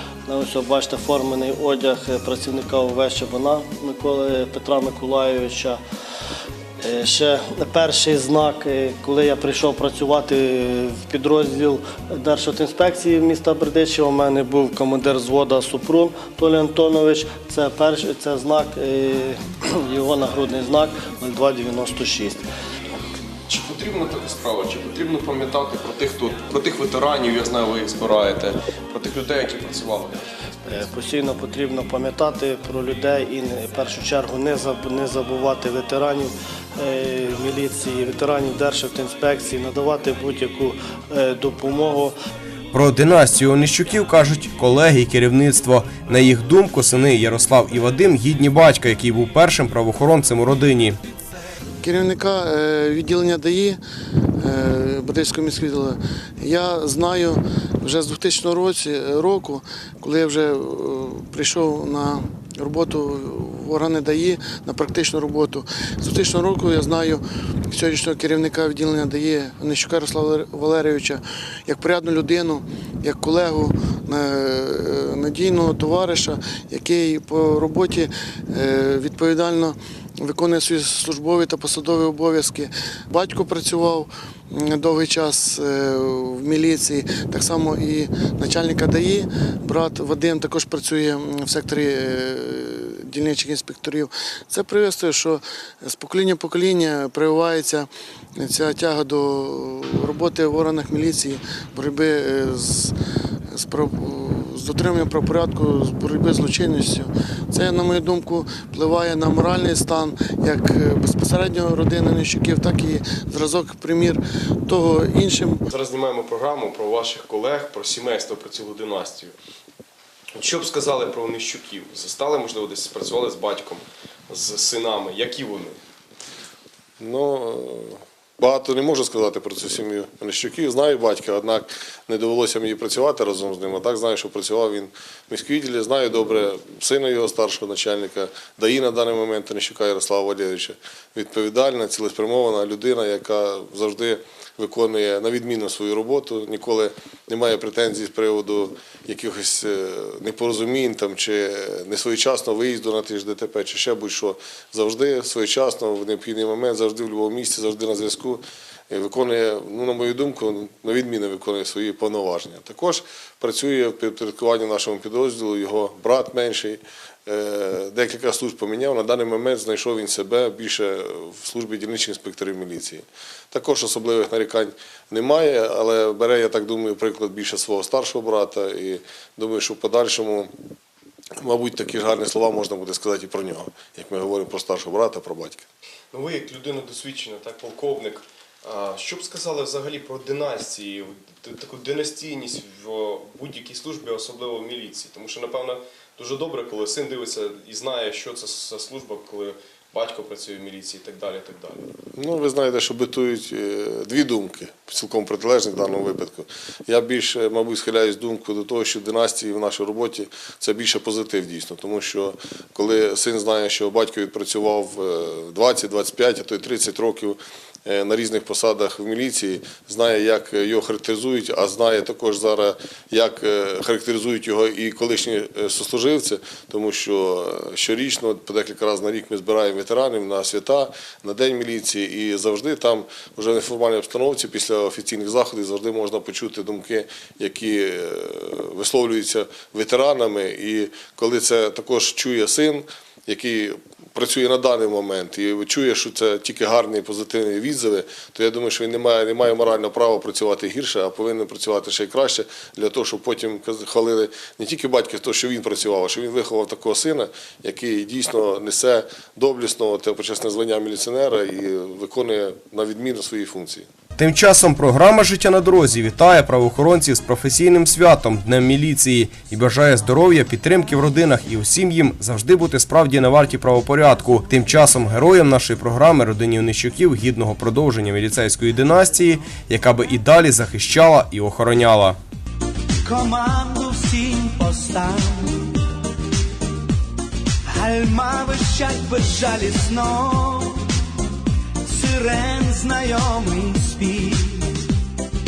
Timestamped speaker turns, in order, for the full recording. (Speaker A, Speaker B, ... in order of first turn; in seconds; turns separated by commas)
Speaker A: 0.3-5.8, Speaker A: 6.8-22.4, Speaker B: 23.5-30.8, Speaker A: 30.7-42.1, Speaker C: 42.7-51.0, Speaker D: 51.8-53.8, Speaker D: 54.4-102.9, Speaker D: 103.5-115.6, Speaker B: 115.7-119.4, Speaker B: 120.3-125.8, Speaker E: 127.0-180.5, Speaker E: 181.4-185.7, Speaker B: 186.1-201.9, Speaker E: 202.2-263.9, Speaker C: 264.2-282.2, Speaker F: 283.1-285.9, Speaker F: 287.6-290.9, Speaker F: 291.9-294.9